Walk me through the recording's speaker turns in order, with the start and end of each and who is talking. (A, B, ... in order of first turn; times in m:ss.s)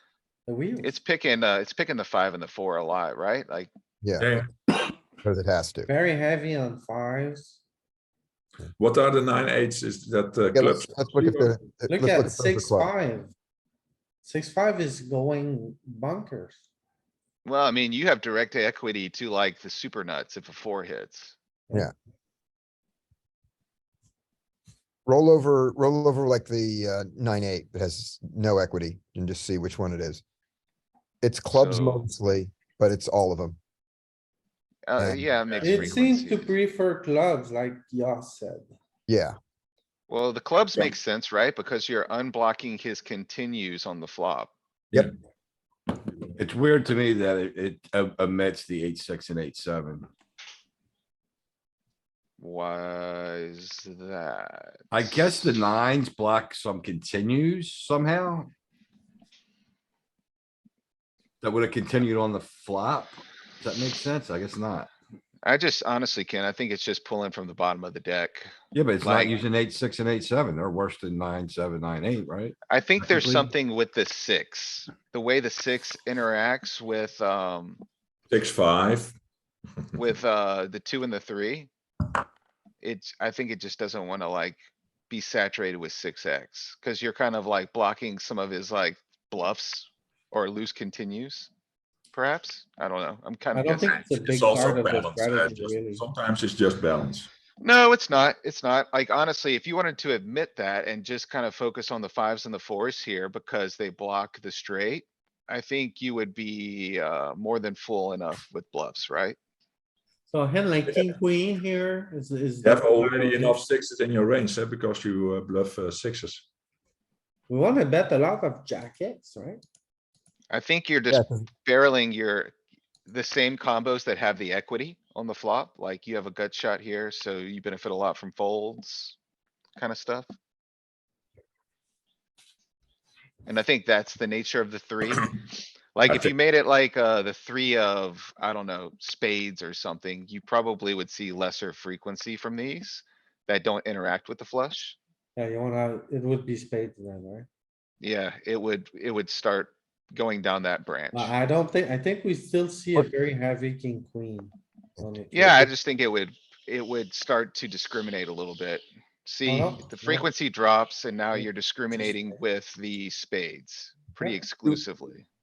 0:00.5-0:00.9 A
0:00.8-0:03.7 B
0:04.0-0:04.3 C
0:04.2-0:04.5 D
0:05.2-0:05.9 C
0:05.9-0:07.6 A
0:08.8-0:11.5 D
0:10.5-0:12.9 C
0:11.9-0:13.3 A
0:14.2-0:16.6 A
0:17.4-0:21.4 B
0:25.1-0:30.2 C
0:31.2-0:33.6 C
0:31.5-0:32.0 B
0:34.9-0:36.6 B
0:35.0-0:35.2 C
0:35.6-0:38.7 A
0:39.1-0:39.4 C
0:40.1-0:44.5 B
0:46.4-0:50.1 E
0:52.4-0:55.5 B
0:54.9-0:58.5 E
1:01.4-1:04.9 E
1:05.4-1:09.4 B
1:08.7-1:13.5 E
1:12.7-1:17.8 B
1:18.3-1:19.2 D
1:20.0-1:21.7 B
1:22.8-1:24.6 B
1:25.1-1:31.5 B
1:32.1-1:34.1 B
1:33.5-1:36.0 A
1:34.2-1:37.3 D
1:37.6-1:49.4 B
1:50.3-1:53.6 A
1:50.9-1:51.2 D
1:52.6-1:56.4 D
1:57.5-1:59.6 A
2:00.5-2:02.5 B
2:01.1-2:01.5 C
2:03.1-2:09.2 B
2:09.8-2:10.3 B
2:13.5-2:15.3 B
2:16.0-2:25.0 B
2:25.4-2:27.5 A
2:28.0-2:31.3 B
2:31.1-2:35.7 A
2:35.3-2:45.2 B
2:39.4-2:40.3 A